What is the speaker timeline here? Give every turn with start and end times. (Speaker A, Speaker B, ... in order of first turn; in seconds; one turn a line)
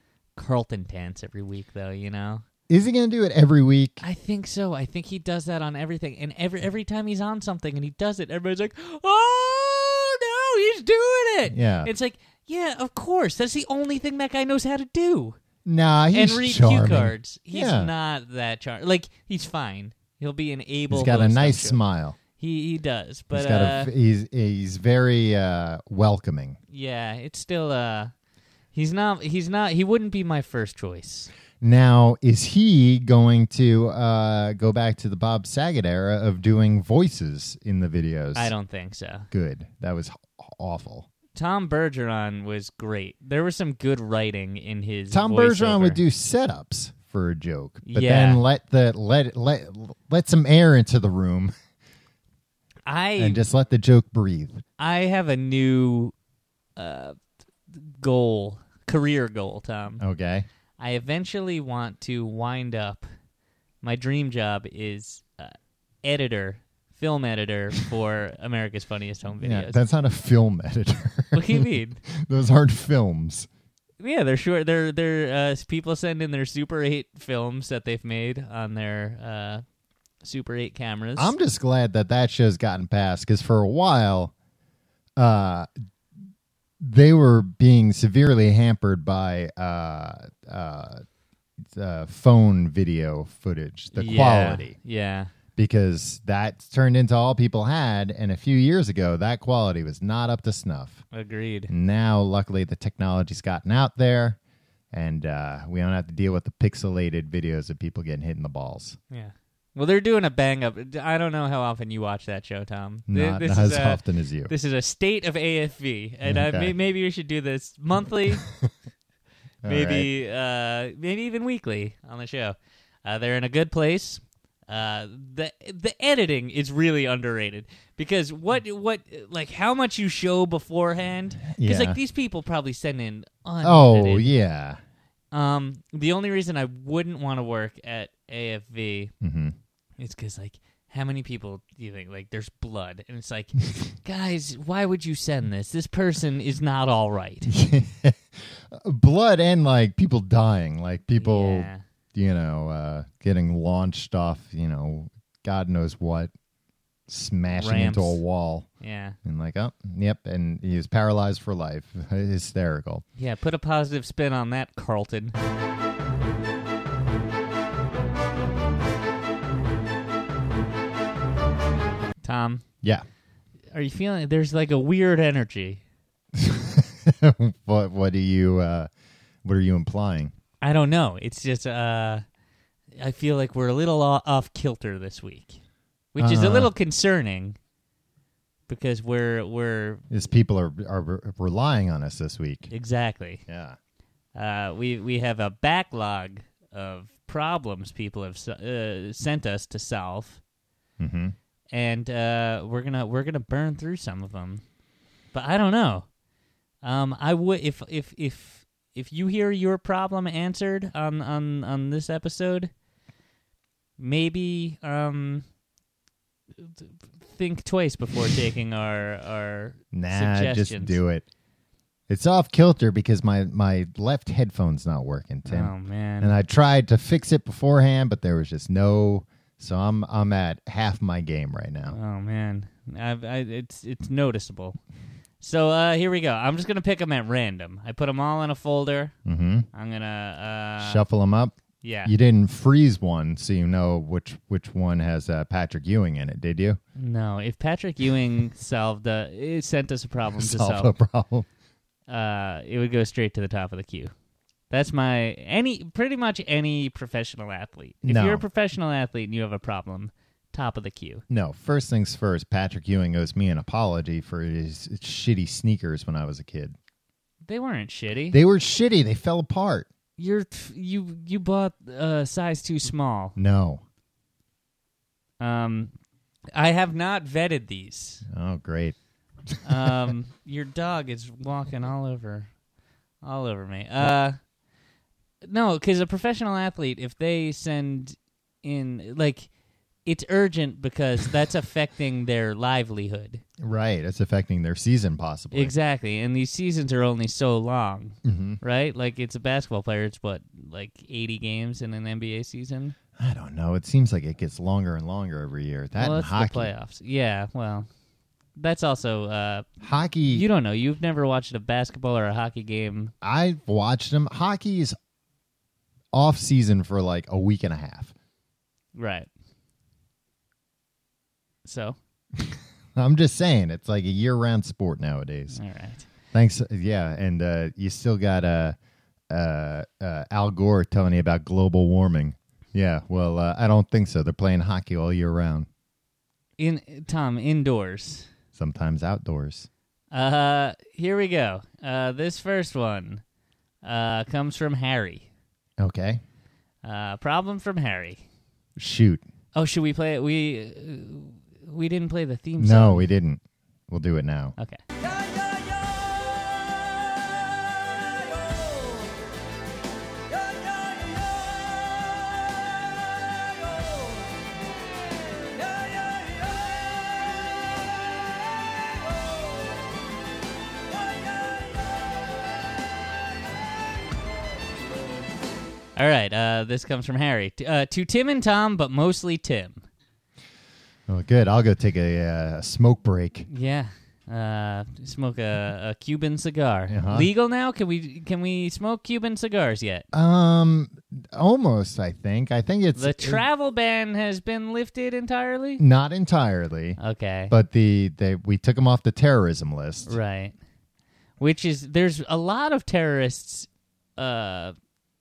Speaker A: 0.3-2.4
Speaker B: 2.7-4.0
Speaker A: 4.0-15.4
Speaker B: 11.5-11.9
Speaker B: 15.6-17.9
Speaker A: 16.1-21.8
Speaker B: 20.9-22.2
Speaker A: 22.4-23.9
Speaker B: 23.3-26.6
Speaker A: 26.7-28.1
Speaker A: 28.7-31.3
Speaker B: 31.6-38.5
Speaker A: 38.3-39.3
Speaker B: 39.3-41.1
Speaker A: 41.3-46.0
Speaker B: 45.1-51.5
Speaker A: 47.8-48.4
Speaker A: 52.9-53.4
Speaker B: 53.2-54.6
Speaker A: 54.8-56.1
Speaker A: 56.8-57.1
Speaker A: 57.7-60.0
Speaker B: 60.0-60.4
Speaker A: 60.8-63.0
Speaker A: 63.8-69.8
Speaker B: 69.4-73.5
Speaker A: 71.3-72.0
Speaker A: 74.0-79.6
Speaker A: 80.2-81.3
Speaker B: 81.2-84.3
Speaker B: 85.2-85.7
Speaker B: 86.8-91.0
Speaker B: 91.7-94.7
Speaker A: 93.9-95.3
Speaker B: 95.5-101.0
Speaker A: 101.1-101.7
Speaker B: 101.7-104.4
Speaker B: 104.9-109.0
Speaker A: 109.1-118.4
Speaker B: 113.1-114.5
Speaker B: 116.2-116.7
Speaker B: 118.4-118.7
Speaker B: 119.6-120.1
Speaker A: 119.6-134.3
Speaker B: 131.5-132.0
Speaker B: 133.6-134.8
Speaker A: 135.3-139.1
Speaker B: 139.2-139.5
Speaker A: 140.0-147.5
Speaker B: 147.5-156.3
Speaker A: 151.2-151.8
Speaker B: 157.1-158.7
Speaker A: 157.5-158.2
Speaker A: 158.8-159.2
Speaker B: 159.2-163.0
Speaker A: 163.2-165.3
Speaker A: 172.2-172.6
Speaker A: 173.7-175.8
Speaker B: 176.3-178.9
Speaker B: 179.4-180.3
Speaker A: 180.6-182.2
Speaker A: 183.0-185.6
Speaker A: 186.1-187.6
Speaker B: 186.2-186.7
Speaker A: 188.7-190.0
Speaker B: 190.1-192.7
Speaker A: 192.7-193.4
Speaker B: 193.5-193.8
Speaker A: 194.3-200.4
Speaker B: 201.0-201.3
Speaker A: 201.7-204.6
Speaker A: 205.3-206.1
Speaker A: 206.8-212.7
Speaker A: 214.0-215.4
Speaker A: 216.6-221.0
Speaker B: 219.9-221.2
Speaker B: 222.1-232.0
Speaker A: 225.4-226.3
Speaker A: 231.9-234.8
Speaker A: 235.4-239.1
Speaker B: 239.2-239.7
Speaker A: 239.7-241.0
Speaker B: 240.8-246.8
Speaker A: 241.8-242.1
Speaker A: 246.9-250.9
Speaker B: 250.4-251.4
Speaker A: 252.1-254.1
Speaker A: 254.7-261.2
Speaker B: 258.0-258.4
Speaker B: 261.3-266.8
Speaker A: 267.4-268.4
Speaker B: 268.3-269.9
Speaker A: 270.2-273.4
Speaker B: 273.4-273.8
Speaker A: 275.4-275.9
Speaker A: 276.5-278.2
Speaker B: 278.3-278.9
Speaker B: 279.5-279.9
Speaker A: 279.6-282.5
Speaker A: 283.2-284.4
Speaker A: 285.4-289.5
Speaker A: 290.0-293.4
Speaker B: 293.6-295.7
Speaker A: 295.5-302.9
Speaker B: 298.2-298.6
Speaker B: 303.2-306.7
Speaker A: 306.0-307.9
Speaker A: 308.6-309.6
Speaker B: 309.8-310.4
Speaker A: 310.3-313.1
Speaker B: 313.2-314.9
Speaker B: 316.1-318.1
Speaker A: 318.9-319.3
Speaker A: 321.6-321.9
Speaker B: 322.4-325.6
Speaker A: 325.5-326.1
Speaker B: 326.3-328.7
Speaker B: 329.3-335.7
Speaker A: 336.6-338.3
Speaker B: 338.5-339.7
Speaker A: 340.1-343.2
Speaker A: 343.8-345.3
Speaker B: 345.8-346.2
Speaker A: 346.8-348.2
Speaker B: 348.8-349.2
Speaker A: 349.5-353.1
Speaker B: 352.6-354.5
Speaker A: 375.9-379.8
Speaker B: 381.1-383.5
Speaker A: 383.5-390.1
Speaker B: 386.9-387.3
Speaker B: 390.1-393.4
Speaker A: 392.9-395.8
Speaker B: 395.8-397.0
Speaker A: 397.0-397.5
Speaker B: 397.5-400.2
Speaker A: 400.1-400.5
Speaker A: 401.4-404.7